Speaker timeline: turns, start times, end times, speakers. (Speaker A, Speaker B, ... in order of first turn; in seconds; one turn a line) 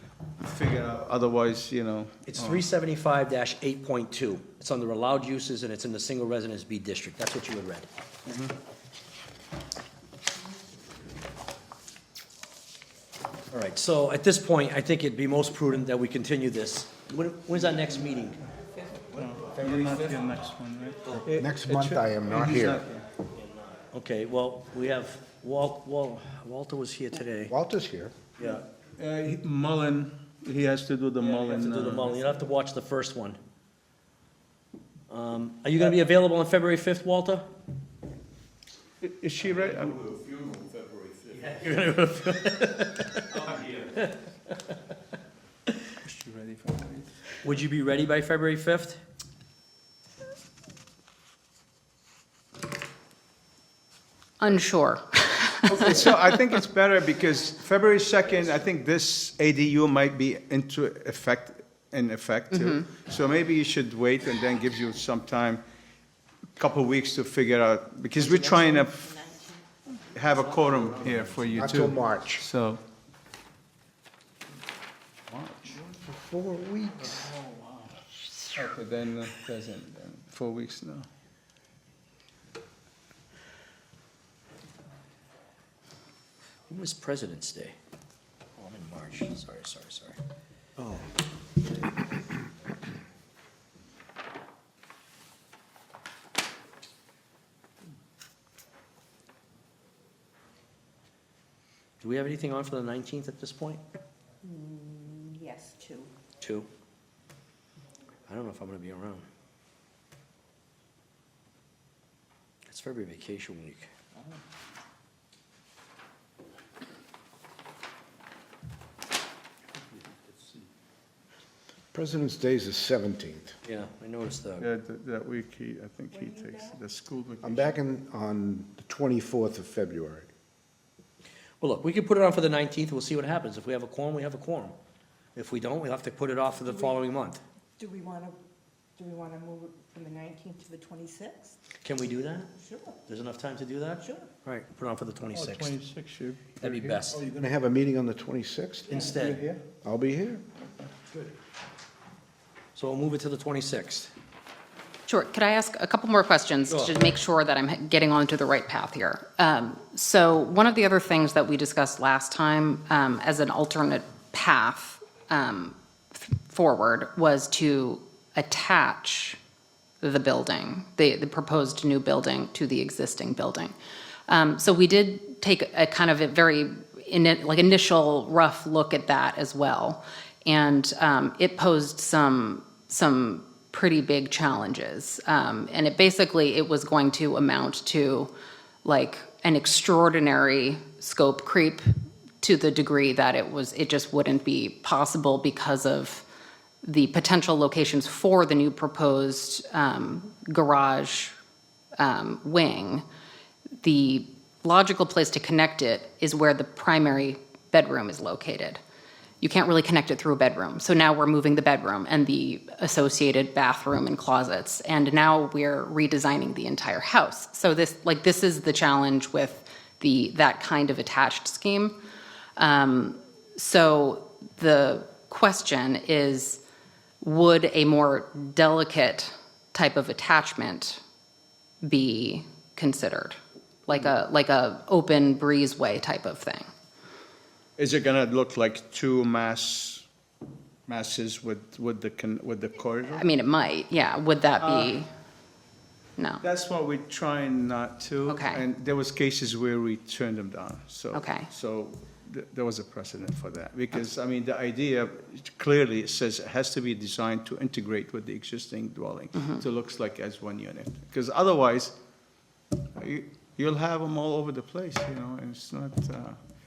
Speaker A: 0.4-2.7
Speaker B: 2.3-7.9
Speaker A: 8.3-8.5
Speaker B: 13.5-18.4
Speaker A: 19.1-23.1
Speaker C: 21.2-22.8
Speaker B: 23.9-27.5
Speaker C: 27.5-28.1
Speaker A: 28.4-32.1
Speaker B: 31.2-33.4
Speaker B: 35.1-37.5
Speaker A: 39.0-40.0
Speaker B: 39.5-44.5
Speaker A: 46.1-47.1
Speaker B: 47.4-49.0
Speaker D: 54.4-56.3
Speaker A: 55.7-65.6
Speaker D: 62.5-62.9
Speaker A: 66.6-69.1
Speaker E: 68.3-69.6
Speaker A: 70.1-72.8
Speaker B: 71.0-71.5
Speaker C: 71.5-72.4
Speaker A: 75.3-75.8
Speaker C: 75.9-77.3
Speaker A: 77.1-77.9
Speaker A: 78.5-81.1
Speaker B: 86.7-87.8
Speaker B: 88.6-90.2
Speaker C: 90.8-91.1
Speaker B: 102.0-103.8
Speaker E: 104.4-106.1
Speaker B: 106.4-106.7
Speaker B: 108.3-109.3
Speaker B: 112.7-113.9
Speaker C: 121.9-123.5
Speaker B: 123.7-124.7
Speaker A: 124.6-127.8
Speaker E: 126.2-126.8
Speaker C: 127.4-130.3
Speaker B: 131.6-134.8
Speaker B: 135.3-137.4
Speaker E: 137.8-138.4
Speaker E: 139.0-141.6
Speaker B: 141.8-142.5
Speaker E: 142.6-143.0
Speaker B: 143.1-145.8
Speaker A: 145.3-147.0
Speaker B: 146.6-147.2
Speaker C: 147.1-149.1
Speaker B: 148.9-149.4
Speaker A: 149.1-149.6
Speaker C: 149.8-150.4
Speaker B: 152.8-154.1
Speaker D: 155.1-169.4
Speaker B: 156.7-156.9
Speaker D: 170.0-173.7
Speaker D: 174.3-188.3
Speaker D: 188.8-191.9
Speaker D: 192.4-196.2
Speaker D: 196.8-201.3
Speaker D: 202.0-203.0
Speaker D: 203.8-208.8
Speaker D: 209.4-222.0
Speaker D: 222.6-226.6
Speaker D: 227.2-231.0
Speaker D: 231.8-236.7
Speaker A: 237.8-240.1
Speaker A: 240.9-243.3
Speaker D: 243.1-245.1
Speaker A: 244.6-245.0
Speaker D: 246.2-246.4
Speaker A: 246.4-261.9
Speaker D: 248.3-248.6
Speaker D: 251.1-251.5
Speaker A: 262.9-266.4